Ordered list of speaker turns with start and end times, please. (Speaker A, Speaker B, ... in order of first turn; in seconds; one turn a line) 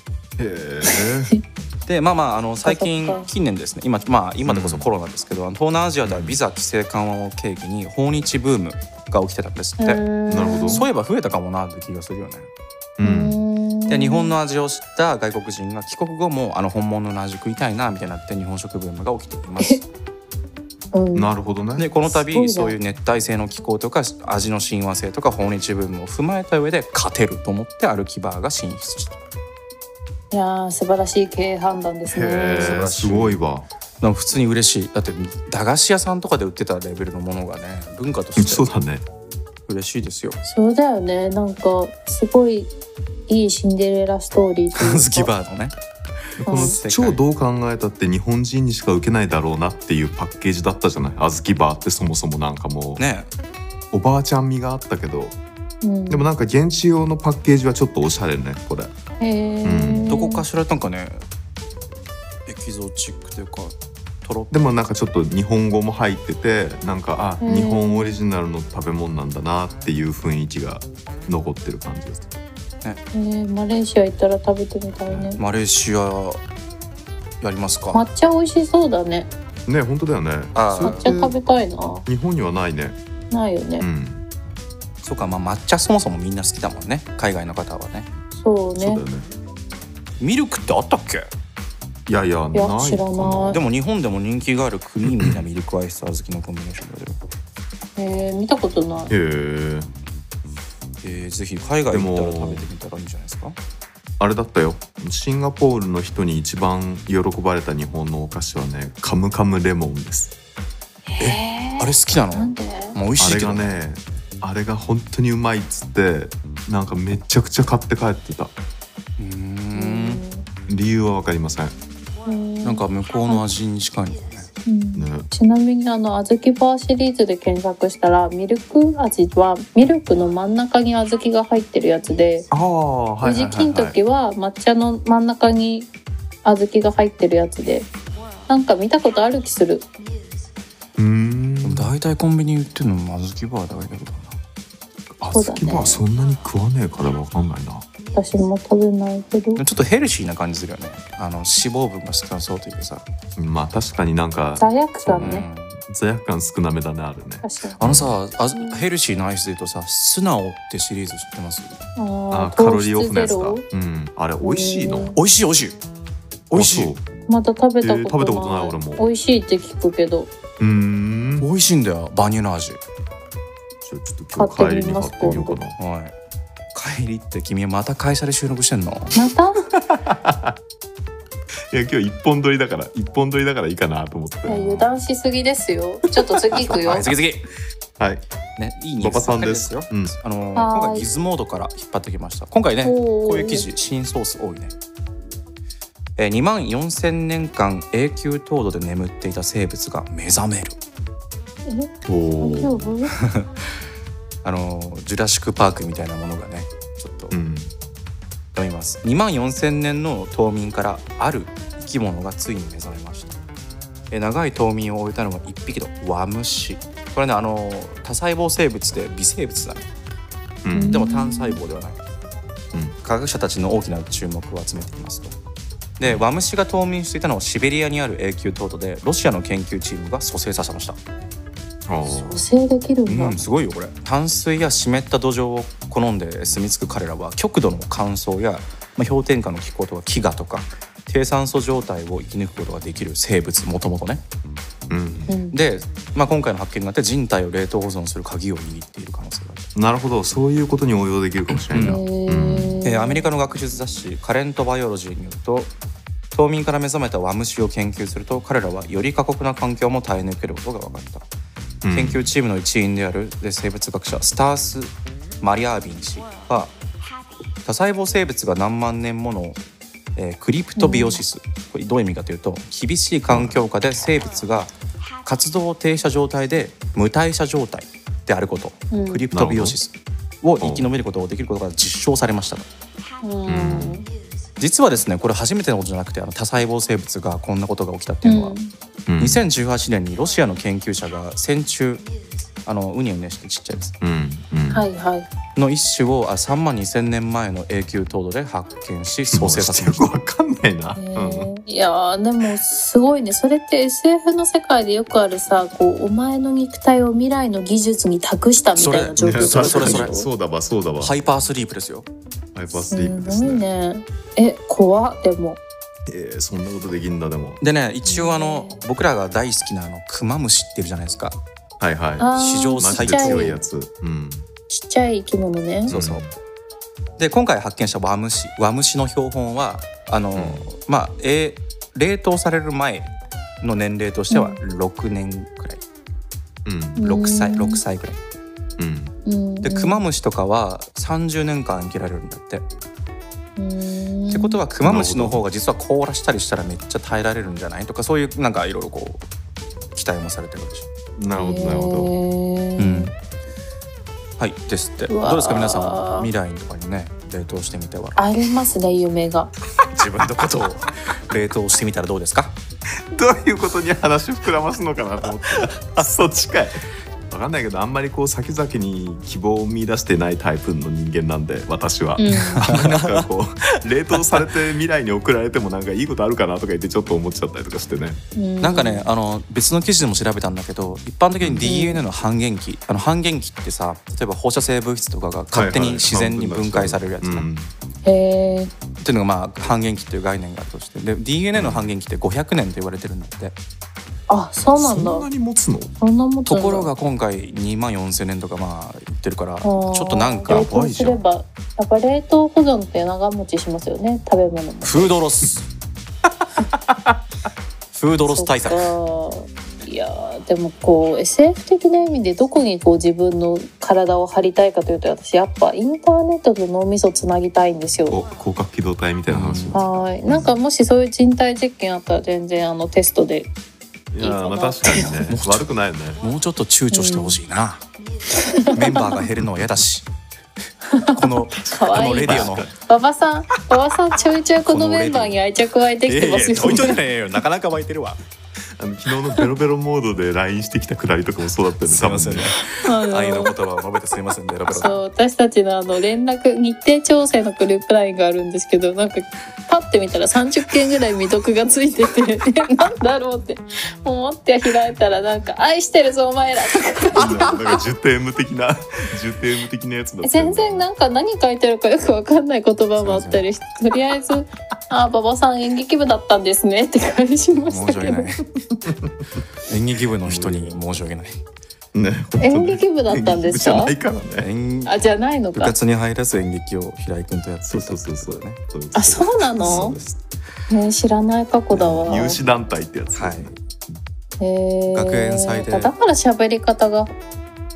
Speaker A: 0.4-1.3
Speaker B: 0.8-1.4
Speaker C: 1.9-10.0
Speaker B: 2.6-3.3
Speaker A: 4.5-4.9
Speaker A: 6.0-6.4
Speaker B: 9.8-10.8
Speaker A: 10.3-10.9
Speaker C: 10.7-12.5
Speaker A: 13.0-13.4
Speaker B: 13.0-14.4
Speaker C: 13.9-19.8
Speaker B: 20.9-21.3
Speaker A: 21.1-21.9
Speaker C: 21.8-29.2
Speaker B: 22.1-22.8
Speaker B: 30.3-32.8
Speaker A: 32.1-33.7
Speaker C: 32.5-33.4
Speaker C: 34.0-38.7
Speaker A: 38.4-39.0
Speaker C: 39.7-40.4
Speaker B: 40.4-42.7
Speaker B: 43.3-45.3
Speaker C: 44.8-45.7
Speaker A: 46.4-53.0
Speaker C: 46.4-47.2
Speaker B: 46.5-46.8
Speaker C: 53.0-53.3
Speaker A: 53.9-55.4
Speaker B: 55.8-56.3
Speaker A: 56.1-58.9
Speaker B: 59.2-60.5
Speaker A: 59.6-60.1
Speaker C: 60.1-61.2
Speaker C: 62.5-64.6
Speaker A: 64.5-72.3
Speaker B: 67.4-68.2
Speaker B: 73.1-75.4
Speaker C: 75.4-76.4
Speaker C: 77.4-78.0
Speaker B: 77.9-79.3
Speaker A: 79.7-81.4
Speaker C: 80.5-81.1
Speaker B: 80.8-82.1
Speaker A: 82.1-83.0
Speaker B: 83.3-83.9
Speaker A: 83.8-84.2
Speaker C: 85.0-88.1
Speaker B: 88.3-89.0
Speaker A: 88.8-89.3
Speaker C: 90.2-91.3
Speaker A: 92.1-93.6
Speaker B: 92.5-93.6
Speaker C: 93.5-97.2
Speaker A: 95.0-95.4
Speaker B: 98.0-99.1
Speaker A: 99.1-99.9
Speaker C: 101.0-103.6
Speaker A: 101.9-102.7
Speaker A: 104.2-110.3
Speaker B: 111.1-113.0
Speaker C: 111.2-113.8
Speaker A: 113.2-118.5
Speaker C: 119.2-120.2
Speaker B: 119.7-120.5
Speaker A: 120.7-121.7
Speaker B: 122.2-123.4
Speaker C: 122.6-124.5
Speaker B: 124.7-132.5
Speaker A: 125.0-125.3
Speaker A: 132.5-133.9
Speaker B: 133.2-135.9
Speaker B: 136.4-137.9
Speaker B: 138.5-139.9
Speaker A: 141.0-141.9
Speaker C: 141.6-144.4
Speaker A: 145.2-147.8
Speaker B: 145.3-146.0
Speaker B: 148.1-149.6
Speaker C: 149.6-153.1
Speaker A: 153.4-158.2
Speaker B: 154.6-155.5
Speaker C: 155.2-155.8
Speaker B: 157.4-157.8
Speaker C: 157.8-161.8
Speaker B: 162.0-163.6
Speaker A: 162.3-165.2
Speaker B: 164.4-165.2
Speaker C: 165.2-165.8
Speaker C: 166.5-166.9
Speaker A: 166.5-167.0
Speaker B: 167.3-170.3
Speaker A: 167.8-169.1
Speaker A: 170.6-171.5
Speaker C: 171.4-172.8
Speaker A: 173.8-175.8
Speaker B: 174.3-175.6
Speaker C: 175.8-176.2
Speaker C: 176.7-179.2
Speaker B: 179.2-179.6
Speaker A: 179.8-180.6
Speaker A: 181.7-184.9
Speaker B: 184.5-187.1
Speaker A: 186.2-186.8
Speaker C: 186.6-187.5
Speaker A: 188.0-188.2
Speaker C: 188.6-194.7
Speaker A: 189.0-190.2
Speaker B: 190.6-191.1
Speaker B: 192.8-193.7
Speaker C: 196.2-200.8
Speaker B: 201.7-203.1
Speaker A: 202.1-202.9
Speaker C: 203.2-203.6
Speaker C: 204.4-207.4
Speaker A: 207.3-207.7
Speaker C: 208.5-213.4
Speaker C: 214.1-219.9
Speaker A: 220.6-221.0
Speaker B: 220.7-221.6
Speaker C: 220.9-222.0
Speaker C: 223.0-225.3
Speaker C: 226.0-231.0
Speaker A: 231.9-232.4
Speaker B: 232.1-233.4
Speaker C: 233.1-244.2
Speaker A: 244.9-245.3
Speaker B: 245.3-245.6
Speaker C: 245.5-249.7
Speaker A: 249.8-252.8
Speaker C: 251.7-252.0
Speaker B: 251.8-253.3
Speaker C: 252.8-255.7
Speaker C: 256.3-261.3
Speaker A: 261.8-262.3
Speaker C: 261.9-266.7
Speaker C: 267.6-269.6
Speaker C: 270.2-274.7
Speaker B: 270.8-271.2
Speaker A: 273.3-273.6
Speaker C: 275.2-282.7
Speaker B: 278.9-279.2
Speaker A: 279.3-279.8
Speaker A: 280.6-280.9
Speaker B: 283.2-284.1
Speaker A: 283.5-284.0
Speaker C: 284.6-288.6
Speaker B: 288.2-288.7
Speaker A: 289.1-289.4
Speaker C: 289.2-292.1
Speaker C: 292.6-293.9
Speaker A: 294.0-294.9
Speaker B: 294.7-295.3
Speaker C: 295.6-300.1
Speaker A: 299.3-301.5
Speaker B: 300.9-310.3
Speaker C: 308.8-310.2
Speaker A: 309.2-311.1
Speaker C: 311.0-312.1
Speaker A: 312.6-313.7
Speaker B: 312.9-315.6
Speaker A: 316.1-317.6
Speaker C: 317.6-321.4
Speaker B: 318.0-318.8
Speaker A: 321.8-324.5
Speaker B: 322.2-323.6
Speaker C: 322.4-323.6
Speaker B: 324.7-325.9
Speaker C: 325.9-326.3
Speaker A: 325.9-326.3
Speaker C: 327.2-335.8
Speaker A: 330.4-330.7
Speaker B: 334.3-334.6
Speaker A: 336.6-337.0
Speaker B: 337.0-337.8
Speaker C: 337.0-338.2
Speaker A: 338.8-339.1
Speaker B: 339.3-340.0
Speaker C: 339.6-342.7
Speaker B: 343.6-344.6
Speaker C: 344.3-349.2
Speaker A: 344.8-345.4
Speaker C: 349.9-350.9
Speaker A: 351.2-352.1
Speaker B: 351.3-353.1
Speaker C: 352.8-353.1
Speaker C: 354.4-358.2
Speaker B: 355.1-356.3
Speaker B: 358.2-359.5
Speaker C: 359.9-362.6
Speaker A: 363.1-378.2
Speaker B: 372.2-372.7
Speaker C: 372.6-373.3
Speaker C: 374.1-374.4
Speaker B: 378.4-379.1
Speaker C: 378.6-387.5
Speaker A: 381.4-381.7
Speaker B: 381.6-382.0
Speaker A: 385.5-387.7
Speaker B: 388.0-388.7
Speaker C: 389.0-393.6
Speaker A: 391.5-391.9
Speaker B: 394.3-395.3
Speaker A: 394.8-395.9
Speaker B: 396.0-396.9
Speaker C: 396.5-401.2
Speaker B: 399.6-405.2
Speaker A: 400.5-400.9
Speaker C: 404.8-405.7
Speaker C: 407.9-408.9
Speaker B: 408.2-418.2
Speaker A: 418.1-420.5
Speaker C: 419.3-419.8
Speaker B: 419.7-423.5
Speaker A: 424.1-426.2
Speaker B: 424.2-425.2
Speaker C: 425.3-425.7
Speaker C: 426.2-427.8
Speaker B: 426.9-427.4
Speaker B: 428.4-429.1
Speaker C: 428.7-430.1
Speaker B: 430.9-437.0
Speaker C: 431.1-432.7
Speaker A: 432.2-432.7
Speaker C: 434.7-435.4
Speaker C: 436.1-438.2
Speaker A: 436.6-436.9
Speaker A: 438.8-442.6
Speaker C: 441.8-445.0
Speaker B: 442.7-443.5
Speaker B: 444.7-457.8
Speaker A: 457.1-460.9
Speaker B: 460.2-468.3
Speaker C: 463.0-463.4
Speaker C: 467.7-468.4
Speaker A: 468.7-469.4
Speaker C: 469.7-471.4
Speaker A: 470.2-470.8
Speaker A: 471.9-474.5
Speaker B: 472.4-473.9
Speaker C: 474.4-475.0
Speaker B: 474.9-475.8
Speaker C: 475.6-478.6
Speaker A: 477.6-480.2
Speaker B: 478.9-480.0
Speaker C: 479.6-480.1
Speaker B: 480.7-482.4
Speaker C: 481.7-482.3
Speaker A: 482.0-484.0
Speaker C: 483.1-483.5
Speaker B: 484.4-487.1
Speaker C: 484.9-485.9